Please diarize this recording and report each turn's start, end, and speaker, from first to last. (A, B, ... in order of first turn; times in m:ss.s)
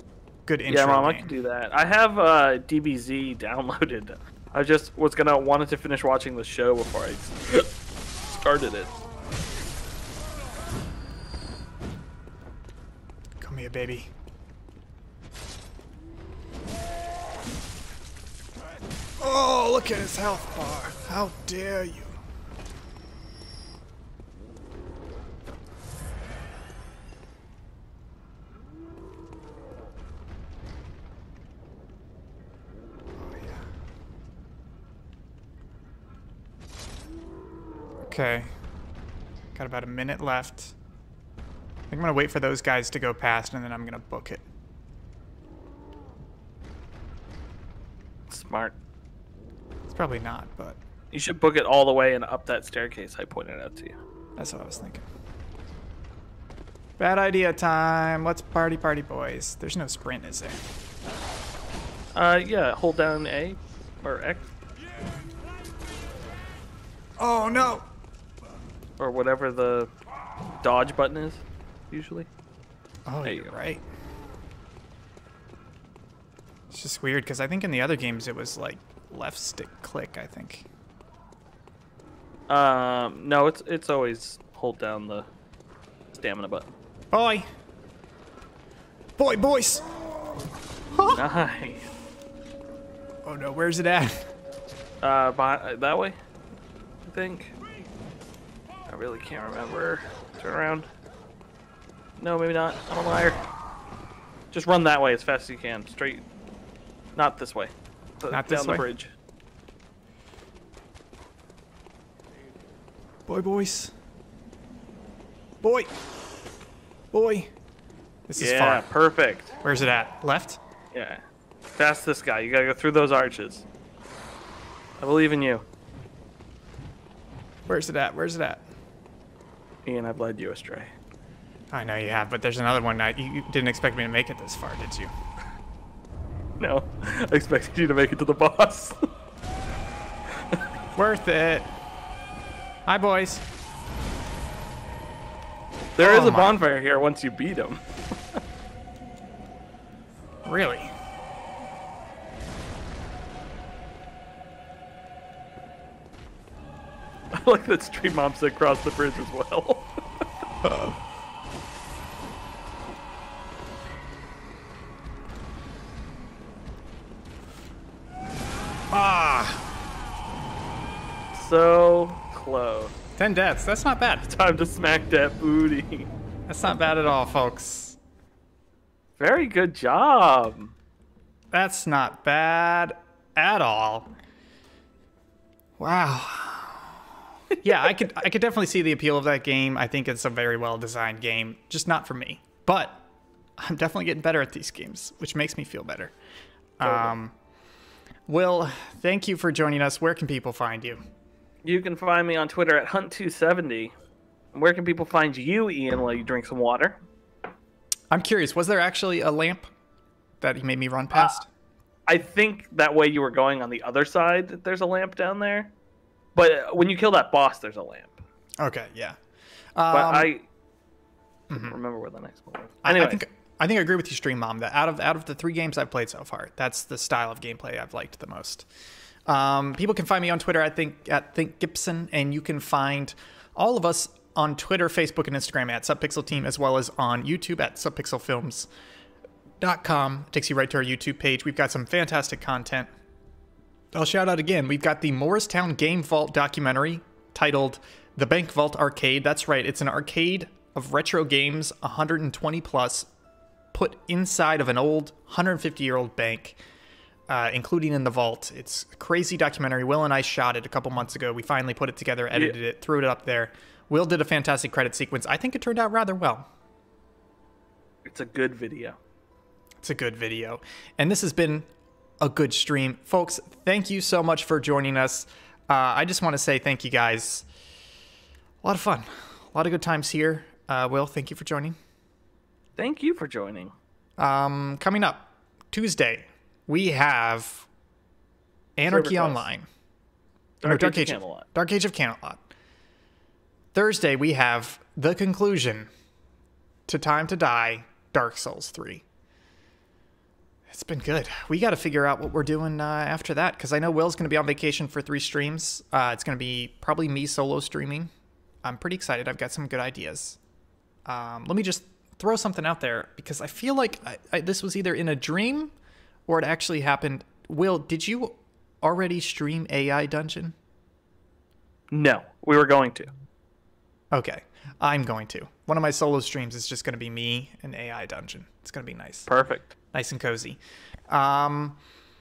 0:00.4-0:01.3 A
0:00.7-0:07.7 B
0:08.3-0:09.0 B
0:13.4-0:14.1 A
0:19.2-0:22.2 A
0:33.2-0:33.7 A
0:38.0-0:38.5 A
0:39.5-0:40.7 A
0:41.9-0:44.4 A
0:48.3-0:48.8 B
0:49.9-0:50.8 A
0:51.1-0:54.0 B
0:54.4-0:55.0 A
0:57.0-1:00.6 A
1:02.1-1:04.5 B
1:07.2-1:07.9 A
1:09.0-1:09.9 B
1:10.6-1:12.3 B
1:13.0-1:13.8 A
1:13.2-1:13.6 B
1:16.7-1:20.7 A
1:22.5-1:25.3 B
1:26.1-1:26.7 B
1:27.1-1:27.5 A
1:29.2-1:29.8 A
1:30.9-1:31.2 A
1:31.1-1:31.9 B
1:33.2-1:34.3 A
1:35.0-1:36.2 B
1:37.0-1:37.6 B
1:38.9-1:40.9 B
1:42.2-1:43.4 B
1:44.5-1:46.2 B
1:47.2-1:49.1 B
1:48.3-1:48.8 A
1:53.3-1:53.9 A
1:55.6-1:55.9 A
1:57.1-1:57.5 A
1:58.3-1:58.8 A
1:58.4-1:59.6 B
1:59.6-2:00.6 A
2:00.9-2:01.2 B
2:01.8-2:03.6 B
2:05.0-2:05.6 B
2:07.6-2:08.6 A
2:09.9-2:10.9 B
2:11.7-2:15.1 A
2:16.6-2:19.1 B
2:20.9-2:21.7 A
2:22.9-2:23.4 A
2:26.0-2:28.4 B
2:26.0-2:26.6 A
2:30.4-2:30.9 A
2:37.3-2:39.9 B
2:40.6-2:41.0 A
2:48.9-2:49.7 A
2:51.3-2:52.9 B
2:53.2-2:54.3 A
2:54.3-2:56.1 B
2:56.5-2:58.0 A
2:59.2-3:00.7 B
3:01.5-3:04.1 A
3:05.8-3:07.0 A
3:07.6-3:13.0 A
3:13.6-3:16.1 A
3:16.8-3:17.3 A
3:16.8-3:17.1 B
3:18.3-3:21.0 A
3:21.6-3:23.9 B
3:24.5-3:27.0 B
3:28.1-3:29.7 A
3:30.4-3:31.5 A
3:31.1-3:31.4 B
3:32.1-3:35.7 B
3:36.3-3:38.2 B
3:38.6-3:39.2 A
3:39.8-3:40.3 A
3:39.9-3:40.5 B
3:41.5-3:41.8 A
3:41.5-3:43.2 B
3:42.8-3:48.7 A
3:49.2-3:58.7 A
3:59.6-4:02.9 A
4:03.9-4:13.1 A
4:13.7-4:16.6 A
4:17.3-4:26.5 A
4:28.0-4:29.0 B
4:29.8-4:31.7 A
4:32.2-4:37.5 A
4:38.6-4:41.8 A
4:42.8-4:43.7 B
4:44.2-4:47.7 A
4:48.8-4:49.7 A
4:48.9-4:49.4 B
4:50.6-4:51.4 B
4:50.6-4:52.5 A
4:53.7-4:55.9 A
4:56.9-4:59.0 A
5:00.7-5:08.1 A
5:08.6-5:10.4 A
5:11.0-5:15.7 A
5:16.3-5:20.6 A
5:21.9-5:23.1 B
5:24.1-5:29.3 A
5:29.3-5:29.8 B
5:29.9-5:31.8 A